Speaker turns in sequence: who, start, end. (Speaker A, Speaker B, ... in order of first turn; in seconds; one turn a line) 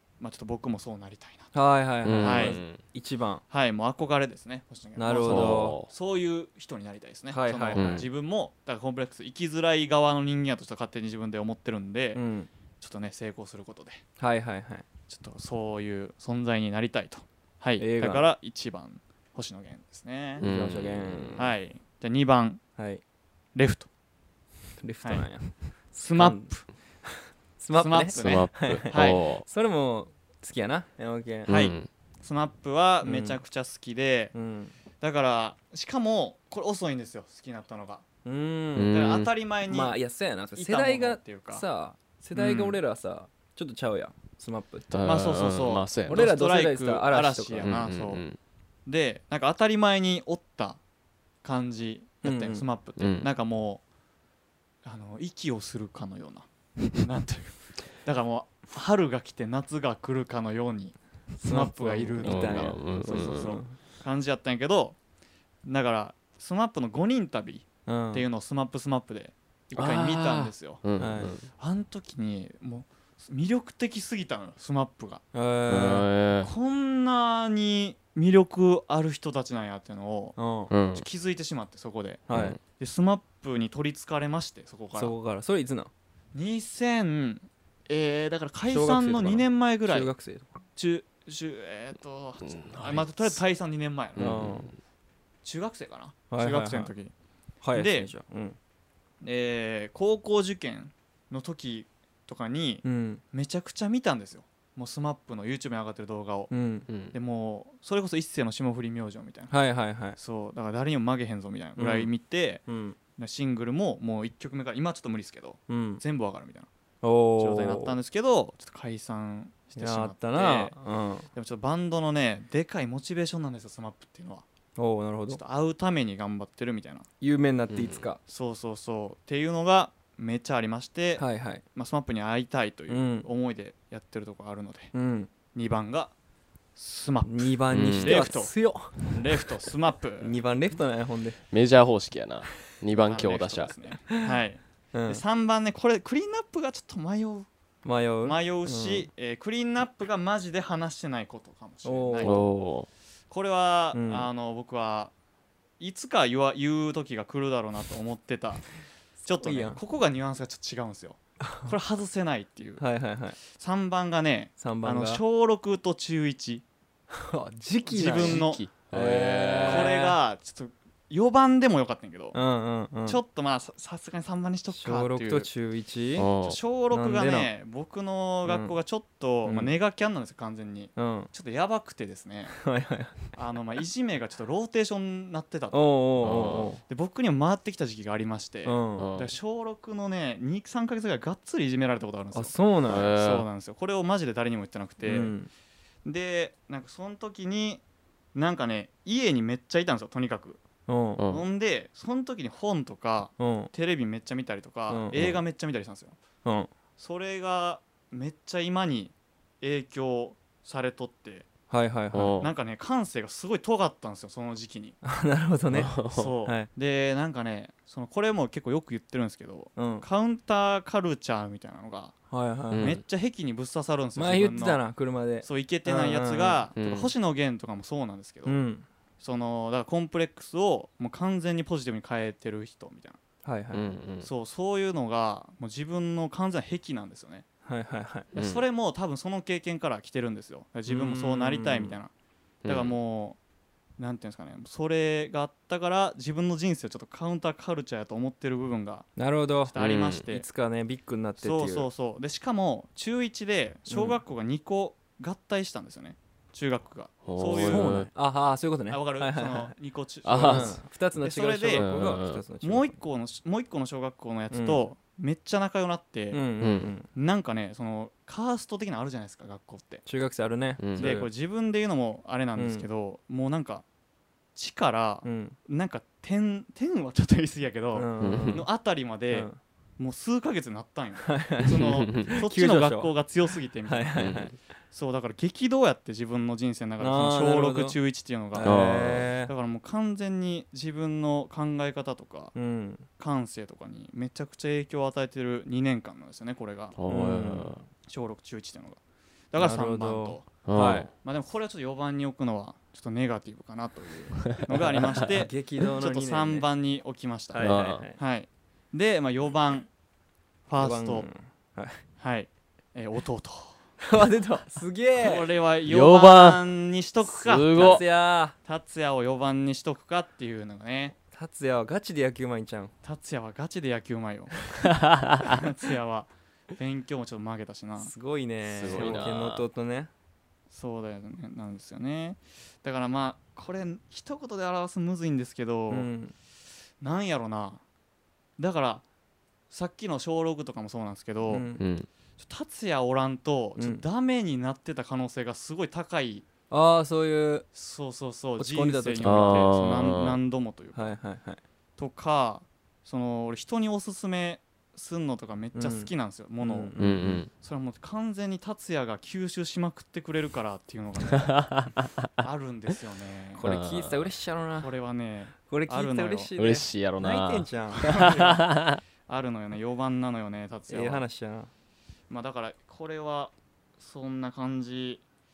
Speaker A: 0.2-1.6
Speaker B: 1.5-3.4
Speaker C: 2.0-2.8
Speaker A: 2.2-2.6
Speaker A: 3.5-12.2
Speaker B: 5.0-5.8
Speaker C: 5.2-5.9
Speaker B: 7.3-8.0
Speaker C: 7.8-8.1
Speaker B: 12.2-12.5
Speaker A: 12.8-14.0
Speaker B: 14.2-14.8
Speaker A: 15.1-20.5
Speaker B: 17.8-18.2
Speaker C: 20.4-21.4
Speaker B: 20.4-21.5
Speaker A: 21.4-22.6
Speaker B: 22.8-23.0
Speaker A: 23.6-23.9
Speaker B: 24.8-31.5
Speaker A: 25.0-25.3
Speaker A: 25.9-26.7
Speaker A: 27.8-29.2
Speaker C: 28.1-29.4
Speaker C: 31.5-31.9
Speaker A: 31.5-34.3
Speaker B: 33.0-33.4
Speaker B: 34.3-34.7
Speaker A: 35.0-38.0
Speaker B: 38.2-39.0
Speaker C: 38.8-39.3
Speaker A: 38.9-40.0
Speaker B: 39.7-44.9
Speaker A: 40.6-41.6
Speaker A: 42.4-42.8
Speaker C: 44.9-46.3
Speaker A: 45.0-48.2
Speaker B: 46.1-47.8
Speaker C: 47.6-48.4
Speaker A: 48.9-50.8
Speaker A: 51.4-53.8
Speaker B: 52.2-52.6
Speaker C: 53.0-53.3
Speaker A: 54.8-65.0
Speaker B: 61.4-63.8
Speaker C: 62.2-63.6
Speaker A: 65.6-75.2
Speaker B: 67.9-68.3
Speaker C: 69.8-71.5
Speaker B: 71.0-71.4
Speaker B: 75.3-76.1
Speaker C: 75.7-76.5
Speaker A: 76.4-80.4
Speaker B: 80.4-80.7
Speaker C: 80.7-81.1
Speaker A: 80.9-85.2
Speaker B: 82.3-82.6
Speaker C: 82.3-82.6
Speaker B: 84.9-85.9
Speaker A: 86.3-90.1
Speaker B: 88.7-90.5
Speaker A: 90.8-94.5
Speaker C: 92.4-93.4
Speaker C: 94.2-94.7
Speaker B: 94.2-94.7
Speaker A: 95.4-97.1
Speaker B: 96.3-96.9
Speaker B: 97.6-98.6
Speaker A: 97.7-98.1
Speaker A: 99.2-106.5
Speaker B: 102.8-103.2
Speaker B: 106.5-106.9
Speaker C: 106.9-107.2
Speaker A: 107.1-109.5
Speaker B: 109.5-110.2
Speaker A: 110.2-112.6
Speaker B: 111.8-112.1
Speaker B: 112.7-113.0
Speaker A: 113.2-116.7
Speaker B: 115.7-116.0
Speaker B: 117.0-118.0
Speaker A: 117.4-120.8
Speaker B: 119.8-121.3
Speaker A: 121.3-124.5
Speaker B: 124.8-125.4
Speaker A: 125.3-127.1
Speaker B: 127.2-128.2
Speaker C: 127.7-128.0
Speaker A: 128.3-134.9
Speaker B: 131.2-131.6
Speaker B: 132.9-133.3
Speaker B: 134.9-135.3
Speaker A: 135.5-136.1
Speaker A: 136.8-140.3
Speaker B: 137.2-139.4
Speaker C: 137.7-138.2
Speaker B: 140.2-141.4
Speaker C: 141.5-143.7
Speaker A: 143.0-147.5
Speaker B: 144.9-145.2
Speaker B: 147.8-149.1
Speaker A: 148.2-152.5
Speaker B: 151.8-152.4
Speaker C: 152.2-152.9
Speaker A: 153.3-155.1
Speaker B: 153.9-154.3
Speaker A: 155.8-158.7
Speaker B: 159.2-159.8
Speaker A: 159.2-162.8
Speaker B: 161.4-161.7
Speaker B: 162.8-163.4
Speaker A: 163.4-166.7
Speaker B: 164.6-165.2
Speaker B: 167.1-170.2
Speaker A: 167.9-168.7
Speaker C: 168.1-169.9
Speaker A: 169.6-172.4
Speaker B: 172.3-173.2
Speaker A: 173.1-175.5
Speaker B: 174.7-176.3
Speaker C: 176.2-176.6
Speaker A: 176.4-182.7
Speaker B: 176.9-177.5
Speaker B: 178.4-178.7
Speaker B: 179.4-179.7
Speaker B: 181.0-181.3
Speaker B: 182.6-183.2
Speaker A: 183.3-195.3
Speaker B: 185.7-186.8
Speaker C: 186.2-186.7
Speaker B: 188.7-189.1
Speaker C: 189.0-189.3
Speaker B: 192.3-193.1
Speaker C: 192.9-193.5
Speaker B: 195.0-195.5
Speaker A: 196.1-197.8
Speaker A: 198.3-200.6
Speaker B: 200.9-201.2
Speaker C: 201.2-201.4
Speaker A: 201.3-206.2
Speaker B: 203.4-203.7
Speaker B: 204.9-205.2
Speaker C: 205.1-205.4
Speaker B: 206.4-206.7
Speaker A: 207.0-211.5
Speaker B: 211.7-212.4
Speaker C: 212.1-212.5
Speaker A: 212.4-215.0
Speaker B: 215.0-216.7
Speaker C: 215.7-216.3
Speaker A: 216.1-222.2
Speaker B: 219.8-220.1
Speaker B: 222.3-222.9
Speaker C: 222.7-223.0
Speaker A: 222.8-224.8
Speaker B: 224.2-226.7
Speaker A: 225.4-228.6
Speaker C: 226.8-227.1
Speaker B: 228.4-228.9
Speaker A: 229.2-233.2
Speaker B: 233.4-233.9
Speaker C: 233.7-234.3
Speaker A: 234.2-237.4
Speaker B: 237.7-238.3
Speaker A: 238.3-242.1
Speaker C: 238.3-238.6
Speaker B: 240.9-242.0
Speaker C: 242.6-243.0
Speaker A: 242.7-243.4
Speaker A: 244.0-249.1
Speaker B: 249.2-249.8
Speaker A: 249.7-250.5
Speaker C: 249.8-250.3
Speaker B: 250.3-251.9
Speaker A: 251.4-258.1
Speaker B: 253.9-254.2
Speaker C: 257.3-258.1
Speaker B: 257.5-259.7
Speaker A: 258.9-266.4
Speaker C: 260.2-260.8
Speaker B: 260.4-263.0
Speaker C: 261.8-262.4
Speaker B: 264.5-264.8
Speaker B: 266.3-267.1
Speaker C: 266.6-266.9
Speaker A: 267.1-270.1
Speaker B: 270.1-271.3
Speaker C: 270.8-271.2
Speaker A: 271.0-273.9
Speaker B: 272.6-272.9
Speaker A: 274.6-284.3
Speaker B: 275.2-275.6
Speaker B: 277.9-278.7
Speaker C: 278.2-278.6
Speaker B: 279.3-279.6
Speaker B: 281.2-283.1
Speaker C: 281.8-282.3
Speaker B: 283.9-284.6
Speaker C: 284.2-284.5
Speaker A: 284.9-292.6
Speaker B: 287.0-288.0
Speaker B: 288.5-289.5
Speaker C: 288.6-289.3
Speaker B: 292.6-293.1
Speaker A: 293.2-297.0
Speaker C: 297.0-297.8
Speaker B: 297.1-297.9
Speaker A: 298.0-299.0
Speaker A: 299.5-309.9
Speaker B: 299.6-301.1
Speaker C: 300.7-301.1
Speaker B: 305.0-306.7
Speaker B: 307.5-308.2
Speaker C: 307.6-308.0
Speaker A: 310.7-311.3
Speaker B: 310.8-312.0
Speaker A: 312.2-313.8
Speaker B: 314.0-315.5
Speaker A: 315.2-321.2
Speaker C: 315.9-316.6
Speaker C: 317.3-318.0
Speaker B: 317.7-318.6
Speaker B: 321.3-322.9
Speaker A: 323.0-324.9
Speaker C: 325.0-325.6
Speaker A: 325.5-328.1
Speaker B: 328.0-330.1
Speaker C: 328.7-329.7
Speaker A: 328.9-329.3
Speaker A: 330.7-336.1
Speaker B: 335.9-336.3
Speaker A: 337.0-337.8
Speaker A: 338.6-339.0
Speaker A: 339.7-341.7
Speaker B: 341.5-341.8
Speaker C: 341.8-342.1
Speaker A: 342.4-346.5
Speaker B: 343.8-344.0
Speaker B: 346.7-347.6
Speaker A: 347.7-351.2
Speaker B: 348.6-349.7
Speaker C: 349.2-350.4
Speaker B: 350.9-351.6
Speaker A: 352.0-356.9
Speaker B: 355.8-357.4
Speaker C: 357.0-357.5
Speaker A: 357.5-361.7
Speaker C: 361.3-362.3
Speaker A: 362.4-363.6
Speaker B: 363.6-364.9
Speaker C: 363.6-364.3
Speaker A: 364.8-366.6
Speaker B: 365.7-368.3
Speaker C: 366.6-369.0
Speaker A: 368.0-368.7
Speaker A: 369.3-371.2
Speaker B: 370.9-371.7
Speaker A: 372.3-375.2